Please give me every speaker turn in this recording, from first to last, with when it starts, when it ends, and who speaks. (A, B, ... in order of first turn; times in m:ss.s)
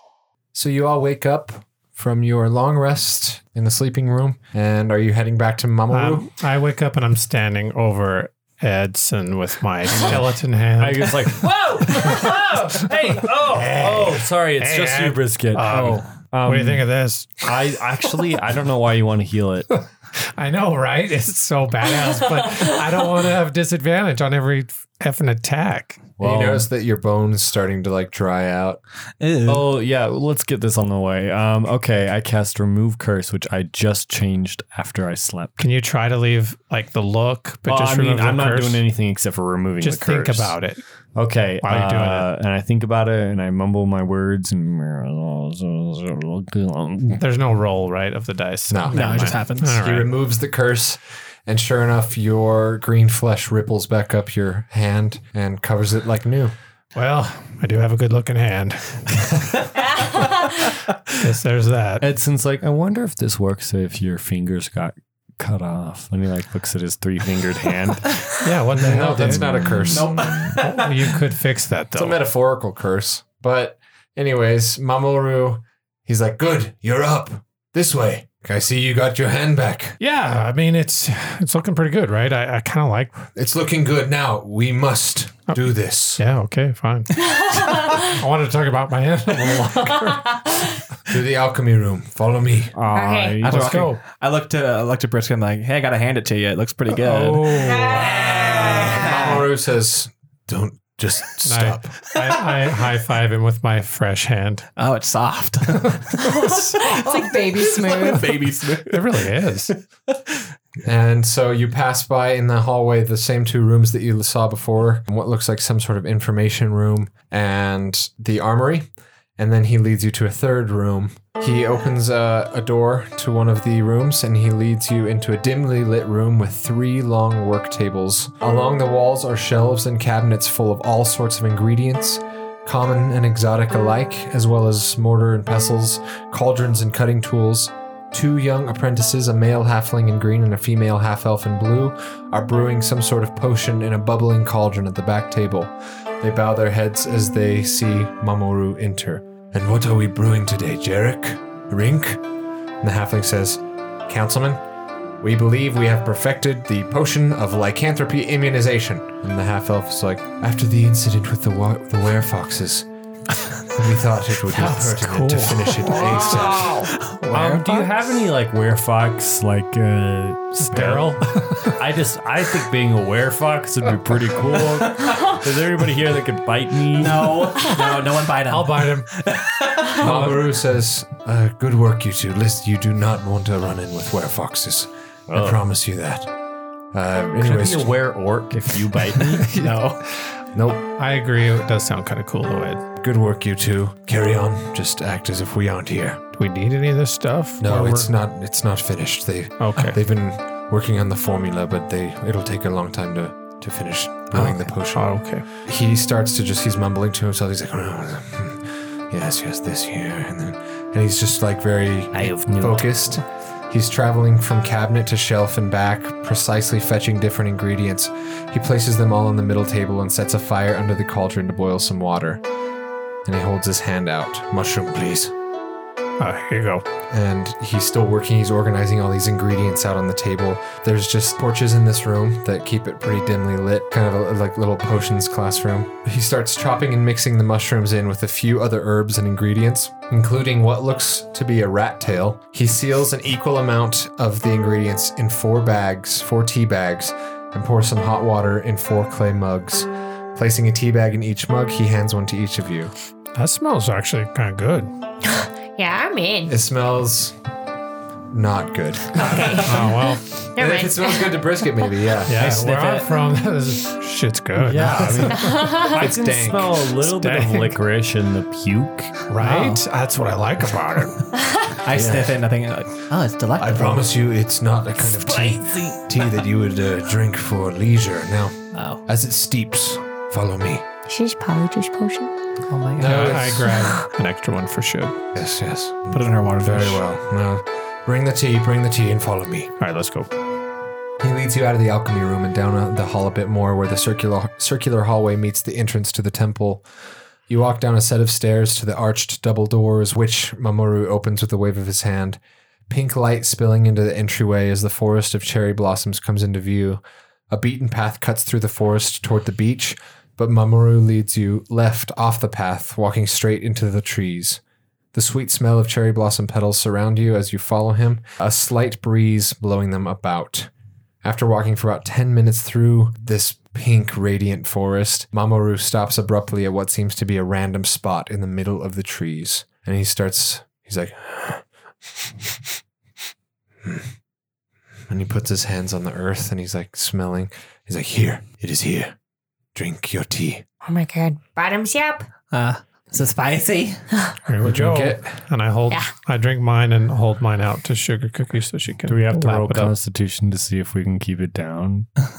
0:00.5-0:06.3 A
0:05.9-0:12.4 B
0:09.9-0:10.2 C
0:10.8-0:16.8 C
0:13.4-0:17.5 B
0:17.4-0:19.7 C
0:20.2-0:26.2 B
0:26.2-0:26.6 C
0:26.2-0:28.8 A
0:29.2-0:29.6 D
0:29.4-0:35.6 C
0:35.6-0:38.8 B
0:37.7-0:40.6 C
0:39.8-0:40.8 B
0:41.1-0:47.2 C
0:41.6-0:42.3 B
0:47.2-0:50.1 B
0:48.7-0:56.5 A
0:48.9-0:49.8 D
0:56.9-1:02.1 B
0:59.9-1:00.5 E
1:02.0-1:08.4 C
1:08.4-1:12.2 B
1:08.8-1:10.1 A
1:09.9-1:11.2 D
1:11.9-1:20.0 A
1:20.0-1:23.3 B
1:23.3-1:26.2 A
1:26.2-1:30.4 B
1:27.3-1:28.1 E
1:29.9-1:30.6 E
1:31.1-1:32.7 A
1:32.7-1:33.8 C
1:32.9-1:33.4 E
1:33.4-1:34.0 B
1:33.4-1:39.4 D
1:36.9-1:38.8 B
1:37.5-1:39.3 E
1:37.9-1:42.1 A
1:41.4-1:44.7 B
1:44.8-1:49.3 D
1:46.2-1:48.3 E
1:48.8-1:49.7 B
1:50.8-2:32.2 A
2:32.8-2:34.6 A
2:35.2-2:42.9 A
2:43.7-2:46.9 A
2:44.5-2:46.1 B
2:45.9-2:47.9 D
2:46.4-2:46.9 E
2:47.3-2:57.7 C
2:50.6-2:51.8 B
2:56.9-3:00.2 D
2:57.9-2:59.1 B
3:00.0-3:06.3 A
3:00.0-3:00.4 B
3:05.3-3:05.6 C
3:06.9-3:07.9 A
3:07.4-3:09.5 C
3:09.3-3:10.0 D
3:10.5-3:10.8 A
3:11.0-3:12.8 B
3:13.0-3:16.2 A
3:16.3-3:18.1 B
3:17.6-3:42.4 A
3:19.6-3:20.0 B
3:24.3-3:24.7 D
3:24.9-3:25.5 B
3:32.1-3:32.9 C
3:43.2-3:45.3 A
3:46.2-3:46.8 B
3:47.1-4:12.9 A
4:13.3-4:14.9 B
4:15.2-4:16.6 E
4:16.5-4:17.4 A
4:18.3-4:19.6 A
4:19.1-4:21.8 E
4:19.6-4:20.3 B
4:20.6-4:22.5 A
4:22.2-4:25.9 B
4:22.3-4:23.1 D
4:24.6-4:29.2 C
4:25.3-4:25.9 E
4:25.9-4:26.8 A
4:27.0-4:27.8 B
4:29.3-4:31.3 B
4:29.4-4:29.8 D
4:31.8-4:34.0 D
4:31.9-4:32.4 A
4:33.6-4:40.8 A
4:35.3-4:36.0 D
4:38.7-4:39.0 D
4:41.1-4:42.3 E
4:42.7-4:43.4 D
4:43.0-4:43.8 A
4:43.0-4:45.2 B
4:43.7-4:44.1 E
4:45.3-4:49.7 A
4:46.1-4:47.0 B
4:46.3-4:46.7 D
4:49.8-4:50.3 B
4:51.2-4:56.8 A
4:57.5-5:14.6 A
5:15.1-5:20.7 A
5:21.2-5:31.6 A
5:32.1-5:32.7 A
5:33.8-5:34.1 A
5:35.1-5:39.1 A
5:39.7-5:40.6 A
5:40.8-5:42.3 E
5:42.5-5:44.0 D
5:44.4-5:49.9 B
5:44.6-5:45.4 A
5:49.1-5:52.1 C